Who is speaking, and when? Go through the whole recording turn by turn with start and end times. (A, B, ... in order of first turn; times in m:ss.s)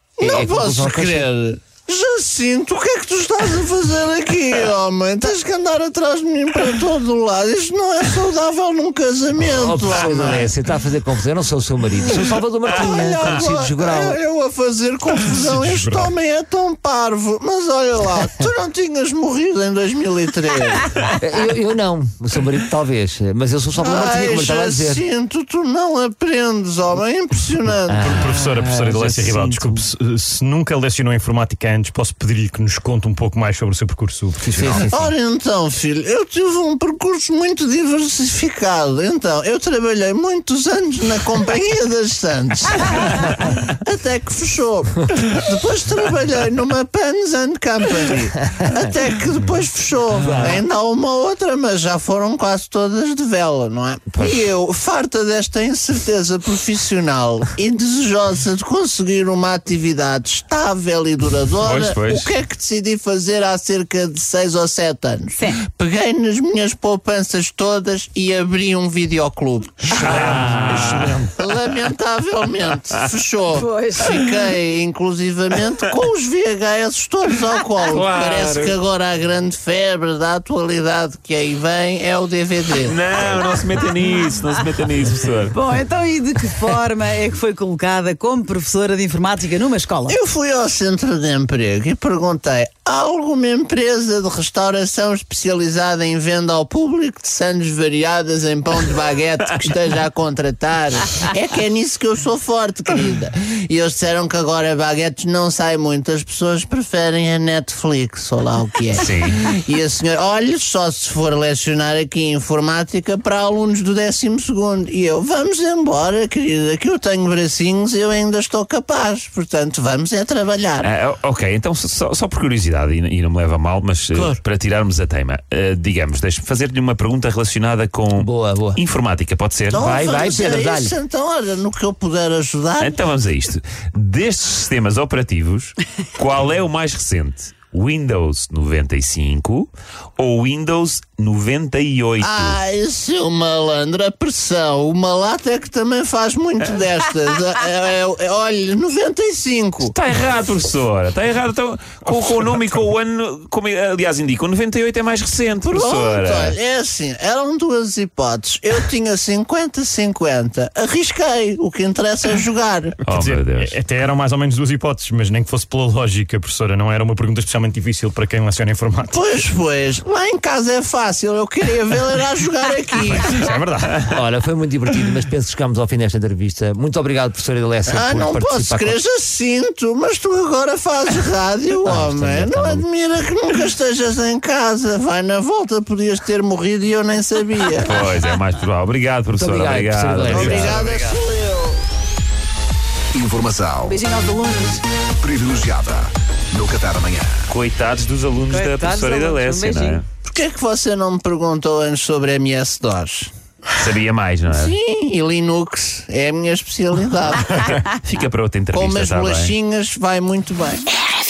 0:00.2-0:10.5 A
0:00.2-0:01.3 B
0:09.4-0:14.2 B
0:12.7-0:21.1 A
0:15.4-0:16.1 C
0:21.1-0:25.0 B
0:23.8-0:28.3 A
0:27.9-0:29.8 B
0:28.1-0:34.8 C
0:34.4-0:34.9 B
0:34.9-1:23.2 A
0:50.2-0:50.6 B
0:54.1-0:54.4 D
1:01.6-1:02.3 D
1:09.9-1:11.2 D
1:12.7-1:13.0 D
1:13.5-1:14.2 E
1:17.9-1:18.8 D
1:22.8-1:25.5 D
1:25.5-1:30.2 E
1:30.1-2:00.9 A
1:49.0-1:49.4 D
2:00.8-2:09.9 D
2:08.1-2:08.8 B
2:09.7-2:13.0 A
2:09.8-2:10.9 B
2:12.8-2:22.6 D
2:22.2-2:29.9 A
2:29.9-2:36.6 D
2:35.6-2:43.0 A
2:43.1-2:43.8 D
2:43.1-2:49.4 C
2:49.1-2:53.5 A
2:53.1-2:54.0 C
2:54.1-2:59.0 B
2:57.9-3:08.0 A
3:01.8-3:02.9 B
3:07.8-3:11.0 D
3:09.4-3:10.8 B
3:10.2-3:11.8 A
3:13.1-3:14.0 F
3:13.8-3:14.8 E
3:15.2-3:17.5 F
3:17.5-3:20.1 D
3:18.5-3:20.0 E
3:20.2-3:23.3 A
3:23.8-3:24.8 D
3:24.5-3:27.8 A
3:27.6-3:29.6 D
3:28.7-3:30.9 A